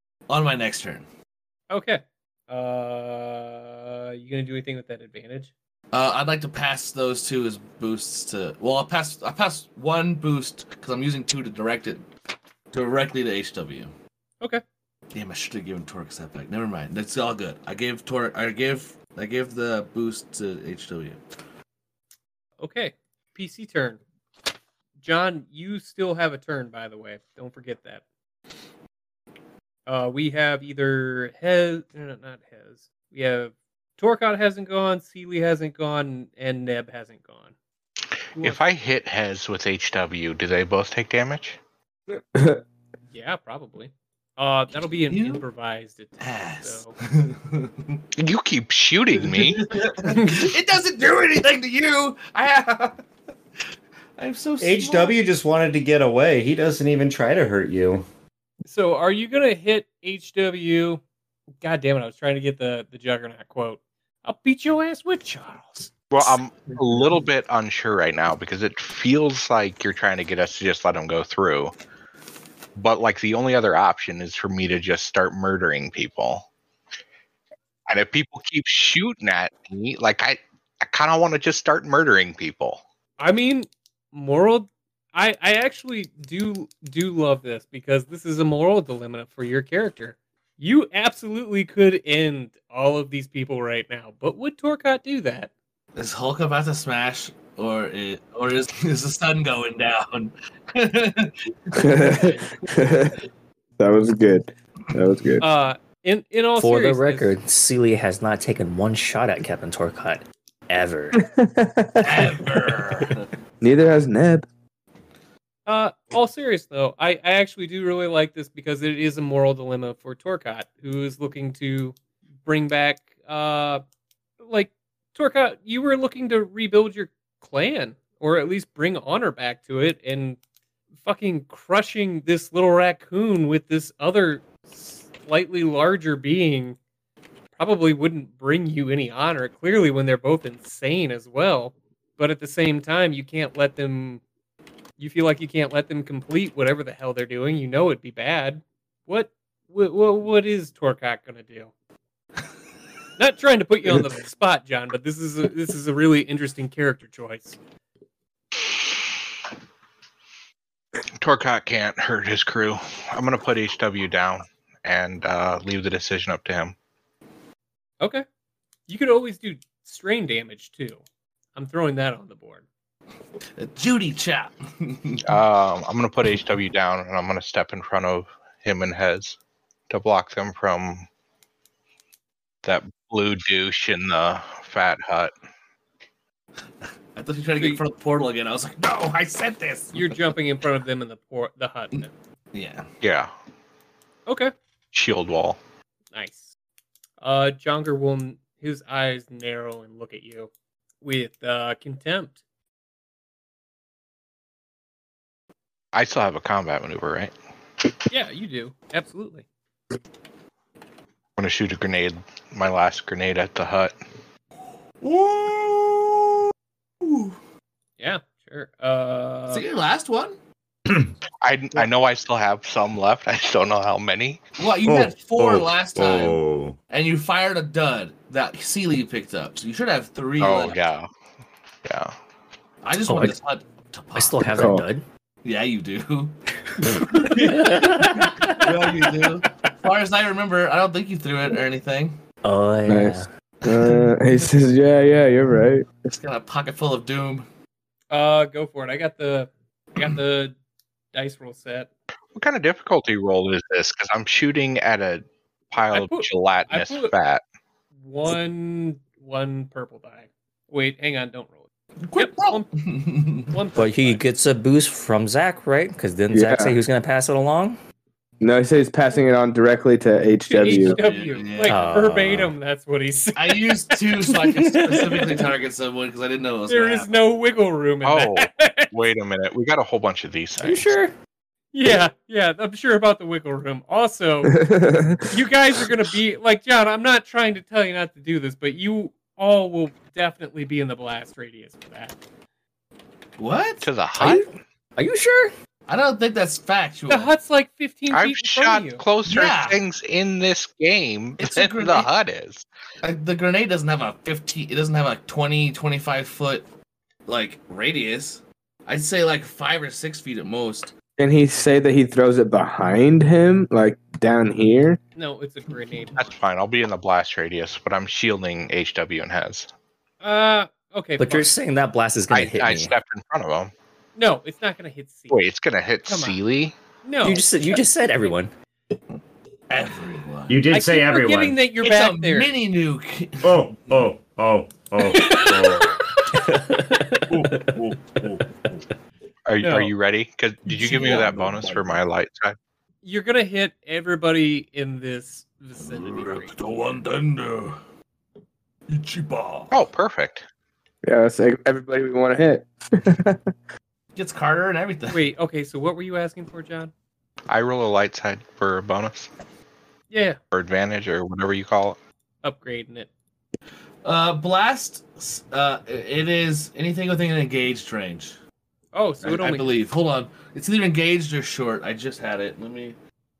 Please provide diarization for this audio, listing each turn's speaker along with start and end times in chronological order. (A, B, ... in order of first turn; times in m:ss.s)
0:00.3-0:01.0 A
0:01.7-0:05.5 B
0:05.9-0:12.1 A
0:12.7-0:13.9 A
0:15.1-0:21.2 A
0:22.6-0:24.0 B
0:25.0-0:28.0 B
0:29.9-0:37.5 B
0:38.4-0:41.6 C
0:42.2-0:42.6 D
0:43.1-0:47.0 B
0:45.1-0:45.4 A
0:46.2-0:48.0 A
0:48.2-0:49.7 C
0:49.1-0:53.0 A
0:50.0-0:50.5 B
0:54.2-0:55.2 A
0:54.6-0:58.0 E
0:58.6-1:01.0 B
1:01.6-1:06.0 B
1:06.1-1:11.7 C
1:12.8-1:16.5 C
1:17.9-1:22.8 C
1:23.2-1:35.5 B
1:36.0-1:42.4 A
1:41.7-1:43.2 D
1:43.8-1:45.4 D
1:45.4-1:47.3 B
1:46.6-1:51.2 F
1:51.1-1:52.8 D
1:52.0-1:53.3 A
1:53.6-1:54.5 D
1:55.6-2:03.8 B
2:04.4-2:10.4 B
2:11.0-2:16.8 B
2:17.6-2:24.2 B
2:25.0-2:31.7 B
2:33.2-2:37.6 B
2:41.2-2:46.7 C
2:48.0-2:48.2 B
2:48.9-2:51.0 B
2:51.6-2:52.6 B
2:53.6-2:55.4 A
2:55.2-2:59.4 C
2:59.9-3:01.0 C
3:02.6-3:05.3 C
3:07.1-3:10.1 A
3:07.6-3:07.8 B
3:09.9-3:12.1 B
3:12.5-3:12.9 A
3:13.0-3:13.3 C
3:14.3-3:14.5 B
3:14.9-3:15.6 C
3:16.1-3:16.5 B
3:17.2-3:20.5 B
3:21.0-3:22.4 B
3:25.9-3:27.3 C
3:28.1-3:29.4 B
3:31.4-3:33.9 C
3:35.0-3:36.3 A
3:37.0-3:37.4 A
3:38.0-3:39.6 B
3:39.5-3:40.4 A
3:41.4-3:44.4 C
3:44.6-3:50.8 A
3:44.8-3:46.8 E
3:50.4-3:51.1 C
3:51.8-3:52.1 C
3:52.8-3:54.6 A
3:53.0-3:53.3 F
3:54.1-3:55.0 F
3:54.5-3:54.8 D
3:55.4-3:56.4 A
3:56.9-4:02.2 A
3:56.9-3:58.7 F
4:02.4-4:03.3 F
4:02.9-4:05.9 D
4:03.7-4:04.0 A
4:06.1-4:07.4 A
4:08.1-4:10.6 B
4:11.1-4:11.9 B
4:12.3-4:17.4 C
4:15.9-4:17.1 B
4:18.0-4:21.6 B
4:22.1-4:23.5 A
4:22.2-4:22.7 B
4:23.5-4:24.2 B
4:23.8-4:27.8 F
4:26.3-4:26.8 D
4:28.4-4:31.0 D
4:30.5-4:35.5 B
4:30.6-4:31.8 A
4:31.7-4:32.5 F
4:33.3-4:37.1 A
4:36.7-4:38.9 B
4:38.0-4:41.0 C
4:40.6-4:41.1 F
4:41.7-4:44.6 B
4:44.5-4:45.3 D
4:45.3-4:52.2 B
4:53.4-4:53.9 A
4:53.8-4:54.5 C
4:54.2-4:55.5 F
4:55.9-4:57.3 A
4:57.1-4:59.0 B
4:58.1-5:02.6 C
4:59.2-4:59.8 A
5:01.4-5:02.1 A
5:03.0-5:06.6 A
5:07.3-5:10.9 A
5:11.2-5:15.0 D
5:15.2-5:16.2 B
5:16.2-5:19.7 C
5:20.2-5:21.5 B
5:21.2-5:22.9 F
5:22.3-5:23.7 C
5:24.2-5:25.4 B
5:25.3-5:26.7 C
5:26.0-5:26.4 B
5:27.0-5:28.3 B
5:27.2-5:28.5 F
5:29.7-5:30.7 A
5:30.5-5:31.6 E
5:30.7-5:32.5 B
5:31.8-5:34.1 A
5:33.4-5:36.0 E
5:35.0-5:35.6 B
5:36.4-5:37.8 F
5:37.3-5:38.4 A
5:39.4-5:42.6 C
5:39.6-5:39.9 B
5:40.6-5:42.0 A
5:43.0-5:46.5 B
5:45.8-5:47.8 A
5:48.9-5:49.8 A
5:49.7-5:50.4 C
5:51.0-5:53.4 D
5:54.1-5:55.2 A
5:55.1-5:56.9 B
5:57.5-5:59.3 C
6:00.1-6:00.4 B
6:00.5-6:02.0 C
6:02.4-6:03.1 B
6:04.0-6:08.4 A
6:08.9-6:09.7 B
6:09.2-6:13.0 A